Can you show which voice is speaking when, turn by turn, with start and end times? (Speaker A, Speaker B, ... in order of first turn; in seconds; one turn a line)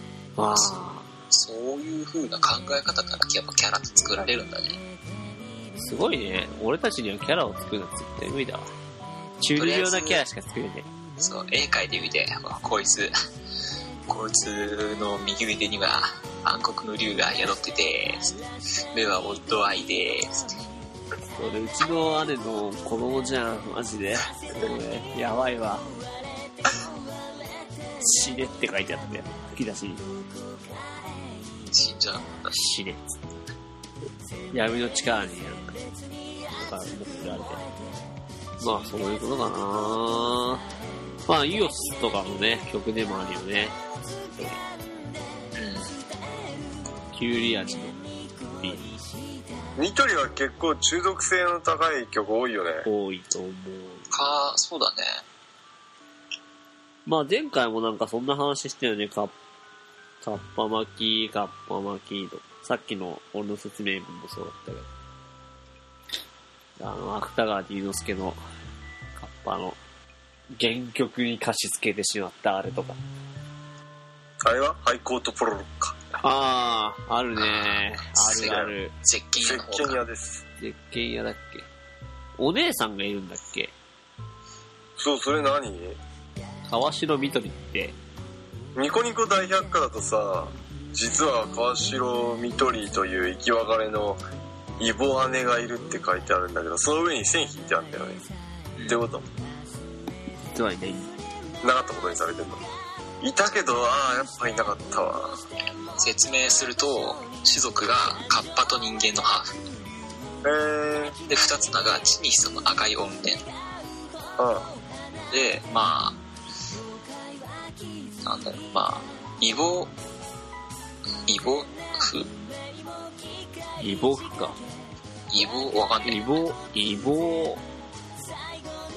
Speaker A: 0.4-1.1
Speaker B: 0.5-4.8
Speaker A: 5.8-8.7
Speaker A: 9.4-10.9
Speaker B: 9.6-10.2
Speaker B: 11.2-13.1
Speaker B: 14.1-18.4
Speaker B: 18.9-20.6
Speaker A: 21.3-25.9
Speaker A: 28.0-30.1
Speaker B: 31.6-32.5
Speaker A: 32.5-33.2
Speaker A: 34.5-35.8
Speaker A: 36.5-37.6
Speaker A: 38.6-40.6
Speaker A: 41.3-43.8
Speaker A: 44.3-44.6
Speaker B: 45.5-45.9
Speaker A: 47.1-48.9
Speaker C: 49.8-52.9
Speaker A: 52.9-54.1
Speaker B: 54.1-55.2
Speaker A: 57.1-59.3
Speaker A: 60.2-64.9
Speaker A: 66.8-68.4
Speaker A: 69.2-69.8
Speaker A: 70.6-73.0
Speaker C: 74.4-76.0
Speaker A: 76.2-78.9
Speaker B: 77.4-80.0
Speaker C: 79.4-80.4
Speaker A: 80.6-81.7
Speaker A: 82.4-83.7
Speaker C: 85.0-86.0
Speaker A: 86.7-88.0
Speaker C: 88.8-94.2
Speaker C: 94.8-98.3
Speaker C: 98.9-99.3
Speaker A: 100.5-101.1
Speaker C: 101.6-102.6
Speaker C: 103.2-105.4
Speaker B: 106.0-109.5
Speaker C: 110.4-111.2
Speaker B: 111.3-113.4
Speaker C: 114.4-114.7
Speaker B: 115.3-116.2
Speaker B: 118.2-119.9
Speaker B: 121.3-122.3
Speaker A: 123.8-124.6
Speaker B: 125.3-126.2
Speaker A: 126.0-127.6